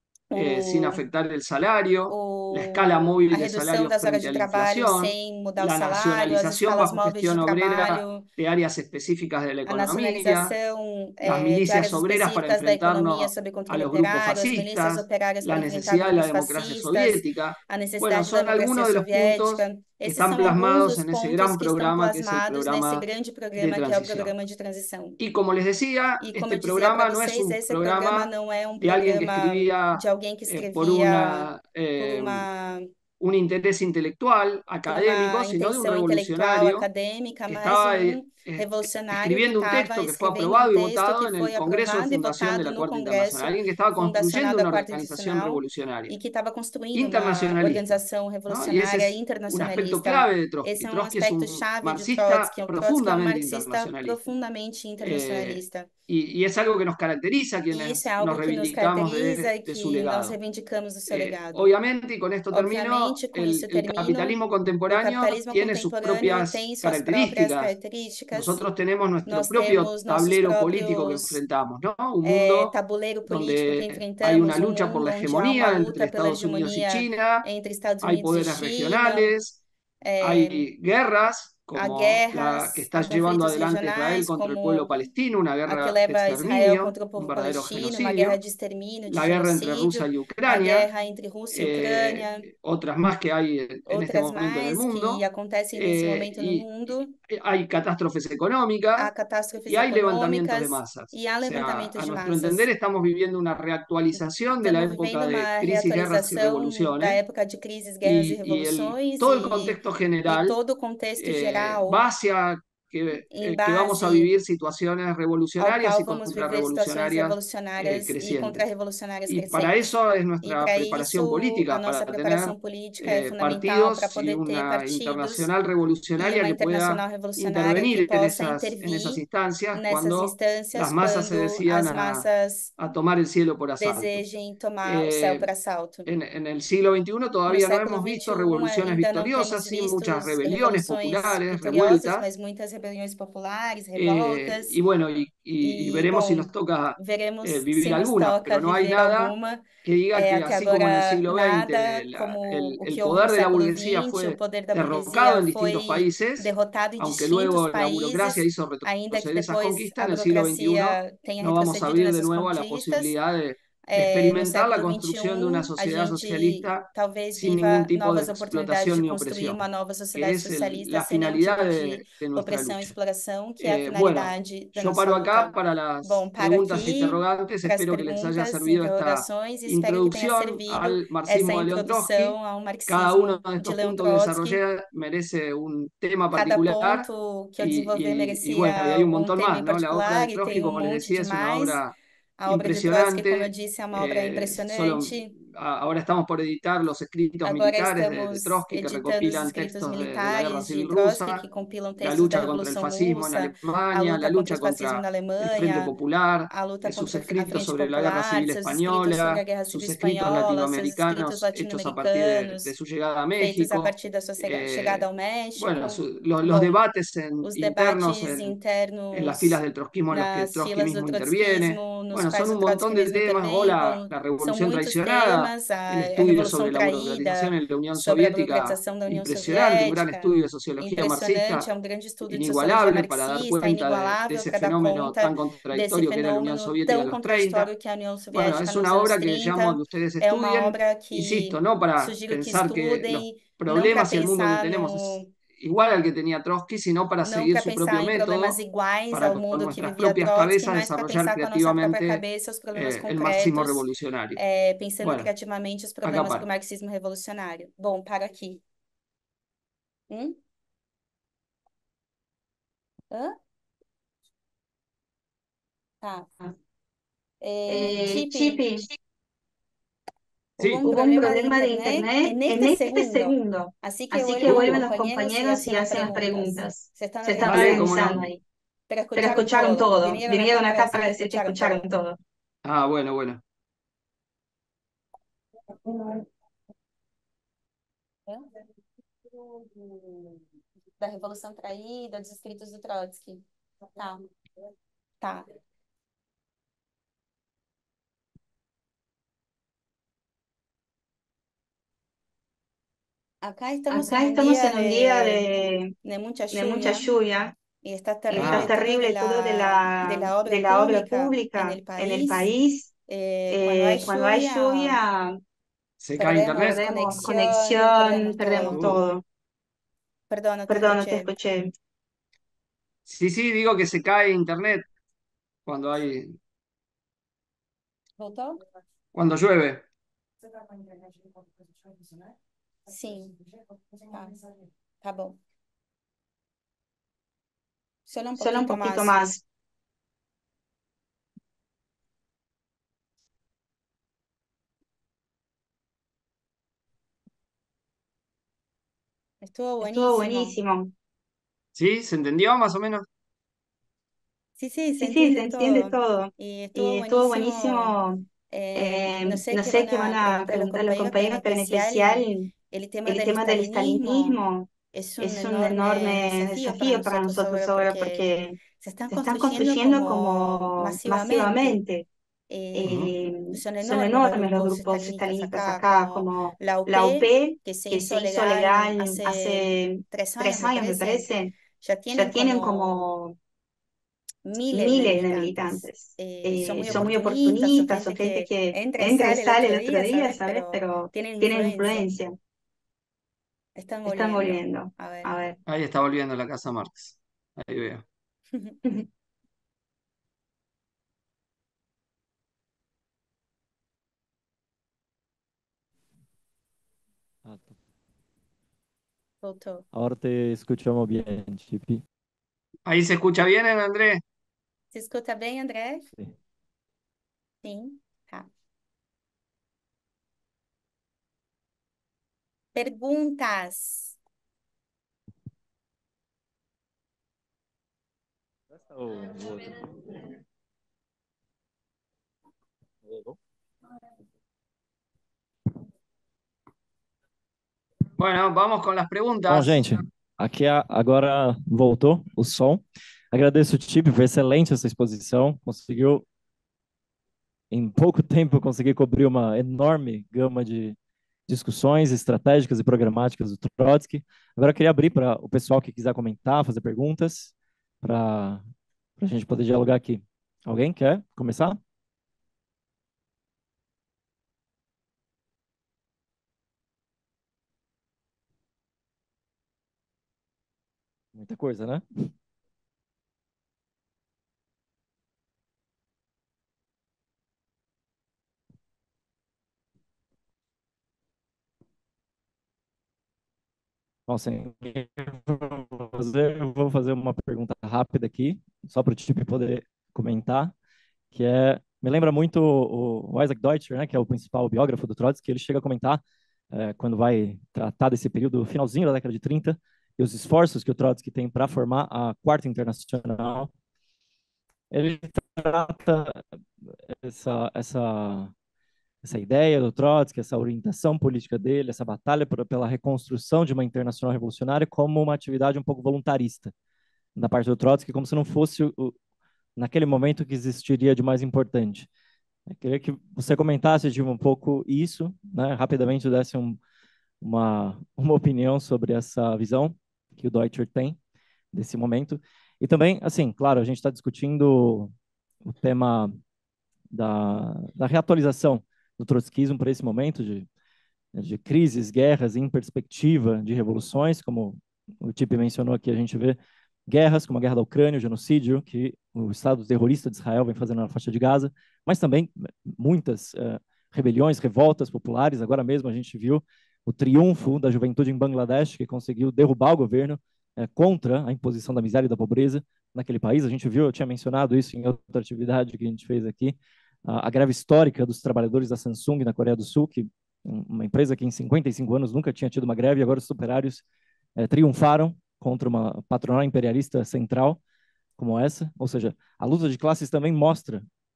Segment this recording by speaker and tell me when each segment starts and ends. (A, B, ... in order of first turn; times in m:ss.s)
0:00.3-0:01.0 A
0:00.3-0:10.5 B
0:02.1-0:08.2 A
0:09.6-0:25.2 A
0:11.2-0:24.3 B
0:25.2-0:28.3 B
0:26.2-0:32.9 A
0:28.8-0:32.5 B
0:33.2-0:36.9 B
0:34.9-0:55.9 A
0:37.5-0:46.1 B
0:46.9-0:48.0 B
0:48.5-0:54.2 B
0:55.0-1:00.4 B
0:57.7-1:01.7 A
1:01.1-1:07.7 B
1:02.5-1:04.4 A
1:04.9-1:08.6 A
1:08.3-1:12.7 B
1:09.2-1:11.4 A
1:12.2-1:19.3 A
1:13.3-1:17.4 B
1:18.0-1:19.6 B
1:20.0-1:20.7 A
1:20.2-1:28.4 B
1:21.7-1:24.9 A
1:25.6-1:32.5 A
1:29.1-1:30.9 B
1:31.5-1:35.2 B
1:33.9-1:37.2 A
1:35.7-1:39.1 B
1:39.0-1:42.7 A
1:39.7-1:47.2 B
1:44.1-1:52.0 A
1:48.0-1:50.6 B
1:51.2-1:58.6 B
1:53.3-1:54.3 A
1:55.6-1:59.7 A
1:59.3-2:12.2 B
2:00.4-2:05.5 A
2:06.2-2:09.2 A
2:09.7-2:12.7 A
2:12.8-2:14.2 B
2:13.8-2:16.1 A
2:14.8-2:15.5 B
2:16.0-2:22.2 B
2:17.5-2:24.8 A
2:24.0-2:49.6 B
2:25.6-2:43.1 A
2:43.8-3:04.6 A
2:50.1-2:52.9 B
2:53.6-3:02.4 B
3:02.9-3:07.1 B
3:06.3-3:11.8 A
3:07.6-3:11.9 B
3:12.4-3:15.3 A
3:12.5-3:21.4 B
3:17.4-3:25.9 A
3:22.0-3:35.0 B
3:26.5-3:32.7 A
3:33.4-3:36.7 A
3:35.6-3:38.6 B
3:37.4-4:05.3 A
3:39.1-3:51.7 B
3:52.3-3:57.7 B
3:58.3-4:08.6 B
4:07.2-4:13.8 A
4:09.1-4:12.2 B
4:12.7-4:14.4 B
4:14.4-4:18.6 A
4:15.0-4:15.3 B
4:16.0-4:16.5 B
4:20.1-4:20.4 A
4:26.0-4:26.5 A
4:27.4-4:28.8 A
4:27.7-4:28.8 C
4:30.6-4:38.2 A
4:30.6-4:30.8 B
4:30.8-4:38.4 C
4:34.4-4:34.8 B
4:37.4-4:38.3 B
4:38.9-4:41.8 A
4:39.2-4:42.2 C
4:42.6-4:43.4 B
4:45.8-4:46.2 C
4:49.3-4:50.4 A
4:51.0-4:53.4 A
4:53.9-4:54.2 A
4:55.2-4:55.5 A
5:03.4-5:07.1 A
5:03.9-5:05.9 C
5:06.5-5:07.5 C
5:07.8-5:12.5 A
5:08.3-5:12.9 C
5:08.3-5:08.7 B
5:13.1-5:15.0 A
5:13.5-5:15.4 C
5:16.0-5:16.8 B
5:16.2-5:19.0 A
5:16.5-5:19.2 C
5:18.7-5:19.0 B
5:20.3-5:21.3 A
5:20.7-5:21.7 C
5:23.0-5:24.9 B
5:25.6-5:26.4 B
5:28.2-5:28.6 A
5:29.1-5:29.8 B
5:32.9-5:33.4 A
5:34.0-5:34.4 A
5:35.0-5:35.4 A
5:38.1-5:39.3 A
5:38.4-5:39.4 C
5:49.4-5:50.5 A
5:49.8-5:50.9 C
5:51.7-5:53.0 B
5:54.6-5:58.0 A
5:55.0-5:58.2 C
5:58.5-6:04.4 A
5:58.8-6:02.5 C
6:03.0-6:12.0 C
6:04.9-6:11.8 A
6:12.5-6:23.1 A
6:12.7-6:21.5 C
6:12.8-6:13.1 B
6:22.1-6:23.4 C
6:24.4-6:32.1 A
6:24.7-6:32.3 C
6:26.8-6:27.1 B
6:33.8-6:35.4 A
6:34.1-6:35.6 C
6:35.7-6:38.0 B
6:47.4-6:47.7 D
6:49.4-6:49.8 A
6:49.9-6:52.0 D
6:52.8-6:54.2 B
6:54.9-6:56.0 A
6:57.6-6:58.5 A
7:02.7-7:04.2 A
7:08.8-7:09.9 D
7:13.0-7:13.4 D
7:18.2-7:20.0 B
7:19.5-7:22.8 D
7:23.3-7:26.2 D
7:27.7-7:31.0 D
7:31.5-7:38.6 D
7:39.2-7:41.8 D
7:51.3-7:52.3 D
8:04.3-8:10.7 D
8:11.3-8:23.7 D
8:24.9-8:26.4 D
8:27.2-8:28.5 D
8:29.2-8:36.7 D
8:37.4-8:39.1 D
8:39.8-8:42.1 D
8:42.7-8:46.8 D
8:47.4-8:51.2 D
8:51.7-8:55.1 D
8:55.6-8:56.4 D
8:57.1-9:00.7 D
9:01.3-9:06.6 D
9:07.1-9:34.0 D
9:34.6-9:37.8 D
9:38.4-9:41.0 D